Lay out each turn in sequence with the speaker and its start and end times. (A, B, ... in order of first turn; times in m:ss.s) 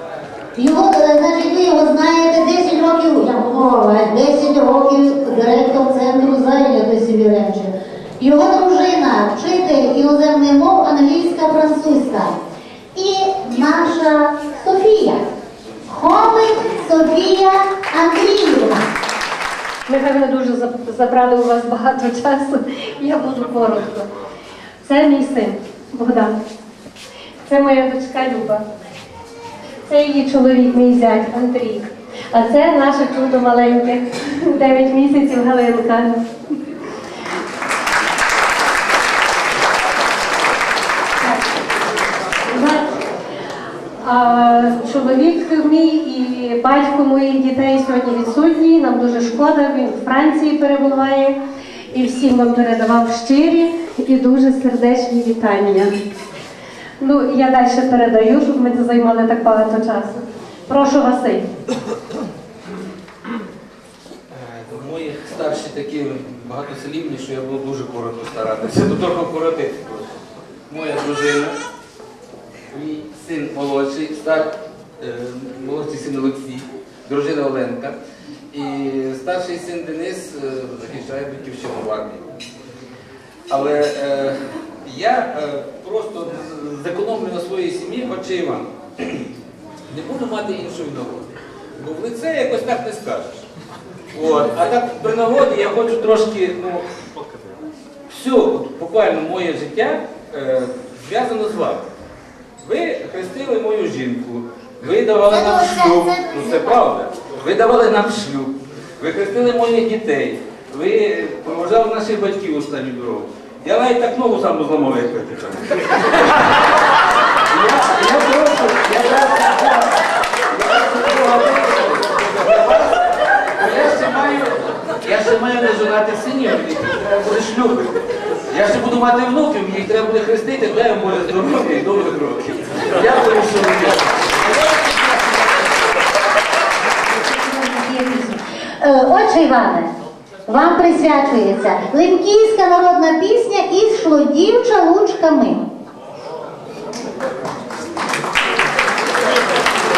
0:00.6-0:12.3 A
0:13.0-0:15.2 A
0:15.9-0:18.9 A
0:19.9-0:24.1 B
0:24.8-0:26.3 B
0:27.5-0:28.6 B
0:29.9-0:36.3 B
0:41.2-0:41.5 B
0:42.5-0:42.9 B
0:44.0-0:51.4 B
0:51.9-0:56.0 B
0:57.0-1:01.5 B
1:04.3-1:10.1 C
1:10.7-1:11.6 C
1:12.7-1:18.0 C
1:18.5-1:22.3 C
1:23.5-1:29.3 C
1:29.9-1:33.5 C
1:34.1-1:36.9 C
1:38.1-1:41.8 C
1:42.6-1:56.7 C
1:45.3-1:46.8 A
1:57.5-2:00.0 C
2:00.5-2:03.0 C
2:03.6-2:14.4 C
2:17.3-2:19.9 A
2:20.5-2:25.6 A